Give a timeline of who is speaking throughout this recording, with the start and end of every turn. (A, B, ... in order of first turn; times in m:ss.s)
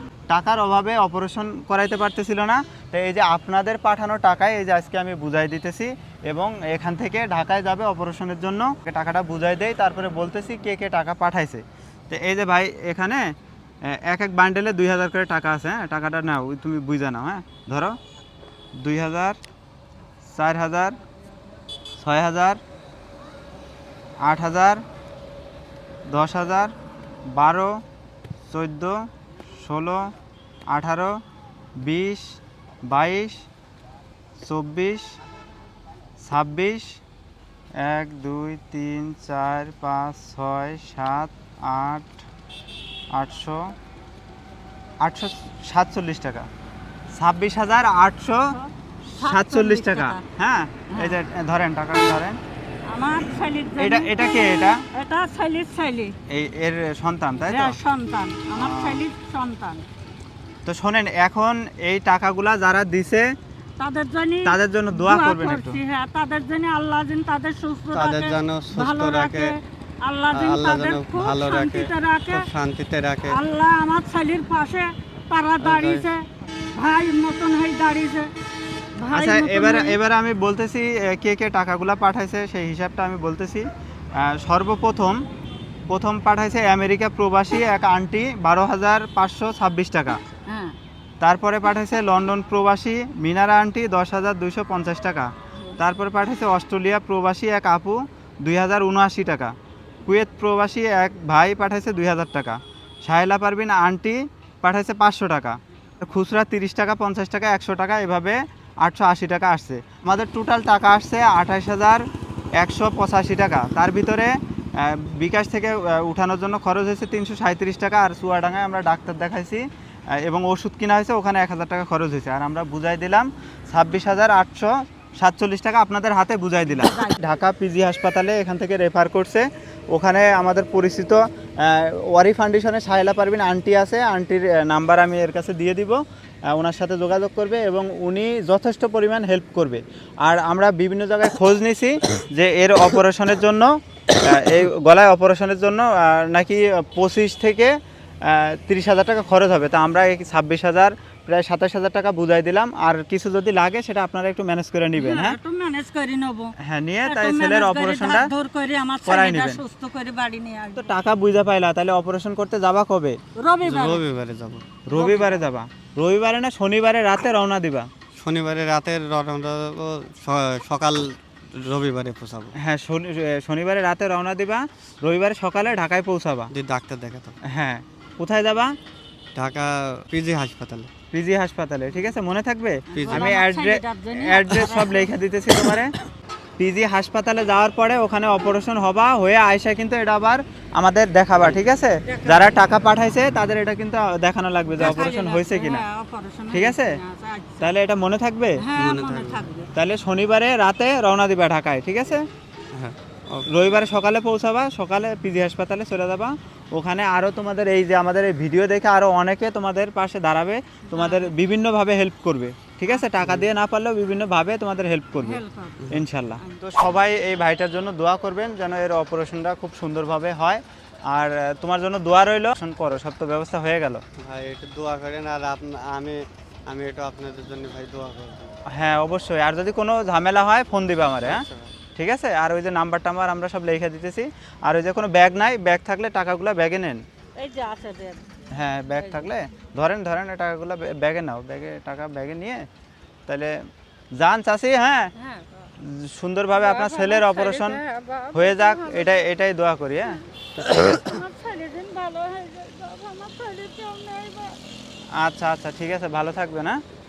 0:00.3-0:13.3 A
0:13.8-0:18.0 A
0:18.8-0:19.4 A
0:20.3-0:21.0 A
0:22.0-0:22.6 A
0:24.2-0:24.8 A
0:26.1-0:26.7 A
0:27.3-0:27.8 A
0:28.5-0:30.1 A
0:30.7-0:31.2 A
0:31.8-0:33.4 A
0:34.4-0:35.2 A
0:36.2-0:37.0 A
0:37.8-0:42.2 A
0:43.1-0:43.7 A
0:45.0-0:46.5 A
0:47.2-0:48.6 A
0:48.5-0:50.2 B
0:49.1-0:52.4 A
0:50.9-0:51.2 B
0:52.9-0:56.1 B
0:53.8-0:54.8 A
0:56.3-0:57.8 A
0:57.4-0:59.8 B
0:58.5-0:59.0 A
1:00.6-1:03.3 A
1:03.8-1:12.5 B
1:04.4-1:05.8 A
1:07.9-1:09.6 C
1:10.3-1:13.4 C
1:13.3-1:18.3 B
1:15.6-1:16.1 C
1:19.0-1:20.0 B
1:19.1-1:25.2 A
1:25.9-1:30.2 A
1:30.4-1:30.8 B
1:31.2-2:35.4 A
2:06.7-2:07.4 B
2:35.0-2:36.5 B
2:36.6-2:38.3 A
2:37.0-2:40.9 B
2:39.0-2:39.6 A
2:40.8-2:43.2 A
2:43.4-2:44.0 B
2:43.6-2:44.6 C
2:44.8-2:47.9 A
2:44.9-2:45.4 B
2:48.2-2:52.5 C
2:52.6-2:56.5 A
2:56.5-2:57.4 C
2:57.5-2:58.7 A
2:59.3-3:00.9 C
3:01.1-3:05.9 A
3:02.9-3:05.1 B
3:02.9-3:03.3 C
3:06.6-3:15.8 A
3:12.0-3:12.5 B
3:14.8-3:17.7 B
3:16.5-3:17.0 A
3:17.6-3:18.6 A
3:18.6-3:19.7 B
3:18.7-3:19.5 C
3:19.7-3:22.2 A
3:22.7-3:23.5 C
3:23.5-3:44.0 A
3:30.9-3:31.3 B
3:33.2-3:33.5 C
3:35.2-3:36.6 B
3:44.2-3:48.5 C
3:48.7-3:57.0 A
3:51.2-3:51.7 C
3:57.4-3:58.2 B
3:58.5-4:02.6 A
3:59.0-3:59.3 B
4:03.3-4:03.6 A
4:04.1-4:05.1 A
4:05.2-4:05.5 B
4:05.8-4:07.8 A
4:06.5-4:09.2 B
4:08.3-4:10.2 A
4:10.1-4:14.6 B
4:15.2-4:16.8 A